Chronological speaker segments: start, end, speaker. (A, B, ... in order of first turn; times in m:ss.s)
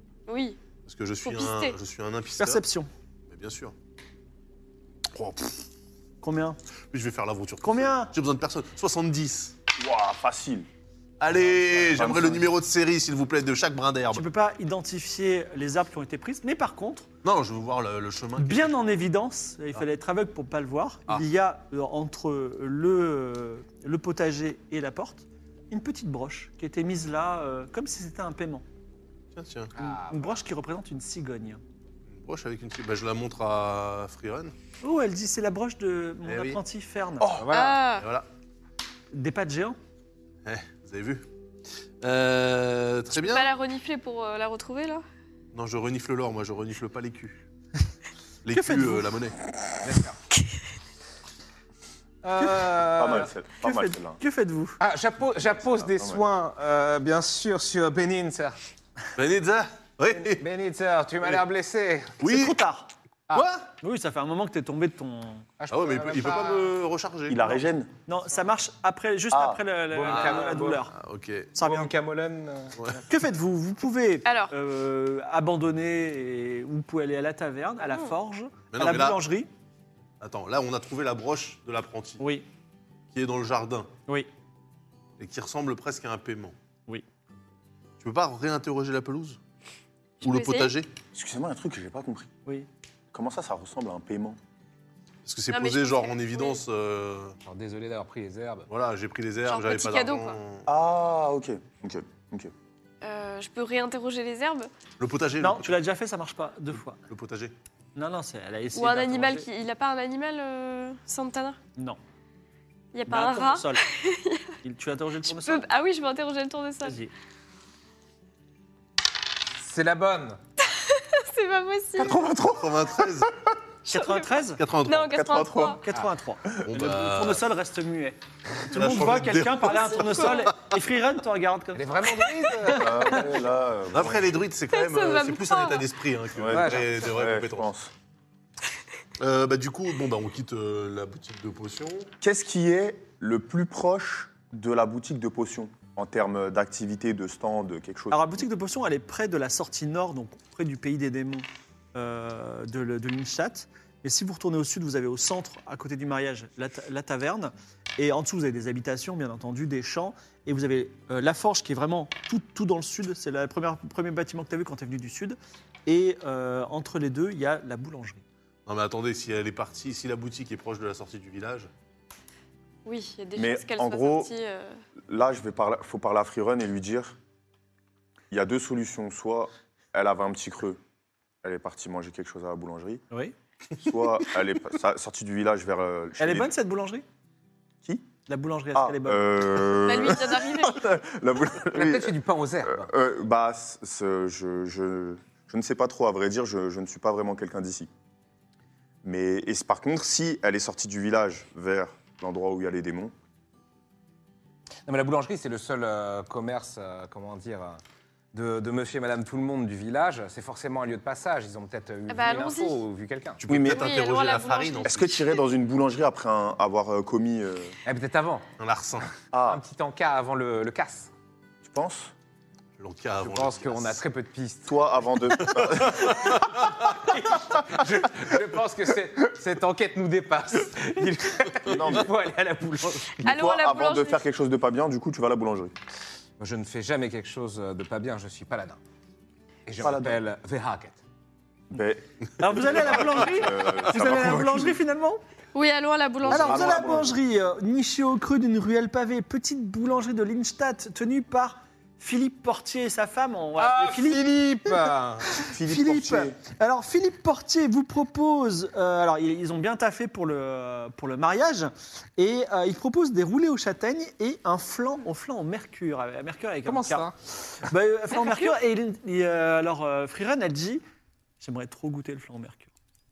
0:00.3-0:00.6 A
0:00.8-0:02.6 B
0:01.2-0:01.8 A
0:02.4-0:02.9 C
0:03.3-0:03.7 B
0:05.1-0:05.6 B
0:06.2-0:06.6 C
0:06.9-0:09.6 B
0:07.6-0:08.1 C
0:09.8-0:10.7 D
0:11.2-0:14.2 B
0:11.7-0:12.5 D
0:14.1-0:17.1 C
0:17.2-0:19.0 B
0:18.4-0:28.6 C
0:29.4-0:29.7 B
0:29.7-0:30.4 E
0:30.1-0:31.6 C
0:32.1-0:34.5 B
0:34.8-0:37.2 C
0:36.3-0:36.6 B
0:37.2-0:38.3 B
0:37.3-0:37.8 E
0:37.5-0:38.0 A
0:39.1-0:39.8 C
0:40.4-0:41.2 B
0:42.0-0:43.5 B
0:43.2-0:45.0 A
0:45.5-0:47.4 B
0:48.4-0:49.4 B
0:48.5-0:49.1 C
0:49.8-0:50.2 E
0:52.2-0:53.3 E
0:52.4-0:54.8 C
0:53.0-0:54.2 D
0:54.8-0:58.6 E
0:55.8-0:56.2 D
0:59.2-1:00.4 B
1:00.2-1:02.2 E
1:02.2-1:02.6 B
1:02.2-1:02.9 C
1:03.3-1:03.6 B
1:03.8-1:05.4 C
1:05.6-1:06.7 E
1:05.7-1:07.5 B
1:07.3-1:07.9 D
1:08.1-1:10.9 C
1:09.3-1:09.6 D
1:09.9-1:10.8 E
1:10.1-1:11.5 B
1:11.5-1:11.9 C
1:11.6-1:13.0 E
1:13.1-1:19.5 C
1:14.2-1:14.5 A
1:17.9-1:18.1 A
1:18.7-1:19.2 B
1:20.2-1:22.2 B
1:22.2-1:22.4 C
1:23.1-1:23.9 B
1:25.2-1:26.5 B
1:28.0-1:29.4 B
1:30.2-1:30.7 A
1:30.2-1:30.9 B
1:31.1-1:32.3 D
1:33.1-1:34.4 D
1:35.2-1:37.4 B
1:35.5-1:36.6 A
1:37.4-1:38.7 E
1:38.7-1:40.7 B
1:39.4-1:40.4 A
1:40.6-1:42.5 D
1:43.0-1:44.7 A
1:45.0-1:45.8 B
1:45.4-1:47.0 C
1:47.1-1:47.5 B
1:47.9-1:49.5 C
1:48.7-1:51.6 A
1:52.9-1:54.5 A
1:53.1-1:53.8 C
1:54.6-1:55.7 C
1:55.3-1:57.0 A
1:56.8-1:57.1 C
1:59.6-2:00.4 E
2:00.6-2:02.2 A
2:02.0-2:02.8 D
2:02.4-2:03.3 B
2:03.9-2:04.6 C
2:03.9-2:04.3 A
2:04.6-2:05.1 B
2:04.8-2:05.8 A
2:05.1-2:05.8 D
2:05.6-2:11.9 C
2:06.6-2:07.4 B
2:08.7-2:10.5 B
2:09.6-2:10.5 A
2:11.7-2:13.2 E
2:12.6-2:13.2 C
2:12.7-2:14.4 D
2:13.9-2:17.7 B
2:14.7-2:15.8 A
2:16.4-2:17.9 D
2:16.5-2:16.9 E
2:19.2-2:22.1 B
2:22.2-2:28.4 D
2:28.1-2:48.2 C
2:48.6-2:51.7 B
2:52.8-2:54.8 A
2:53.4-2:54.3 D
2:55.1-2:57.2 D
2:58.3-3:00.8 D
3:01.4-3:03.0 D
3:03.8-3:06.5 D
3:06.2-3:07.0 C
3:08.3-3:09.6 C
3:08.7-3:17.9 D
3:09.8-3:10.8 A
3:11.7-3:12.9 E
3:19.0-3:23.1 D
3:24.8-3:27.8 E
3:28.3-3:33.4 E
3:32.1-3:32.8 A
3:33.4-3:35.2 B
3:33.5-3:33.9 D
3:33.6-3:35.2 A
3:34.8-3:37.7 D
3:37.8-3:38.4 E
3:38.6-3:39.1 B
3:39.3-3:39.6 D
3:39.5-3:41.1 E
3:41.6-3:42.1 D
3:42.8-3:44.0 B
3:43.2-3:44.7 E
3:44.7-3:46.2 D
3:45.4-3:47.0 B
3:47.1-3:53.2 E
3:51.0-3:52.1 D
3:53.2-3:55.7 D
3:53.2-3:54.2 A
3:56.4-3:58.8 E
3:59.6-4:01.0 E
3:59.8-4:00.2 D
4:01.7-4:04.8 D
4:02.4-4:05.2 C
4:05.5-4:06.8 A
4:06.2-4:07.2 D
4:06.3-4:27.1 C
4:13.6-4:15.3 E
4:15.4-4:16.4 D
4:26.6-4:27.2 E
4:27.7-4:30.8 C
4:28.1-4:28.5 A
4:31.4-4:32.7 C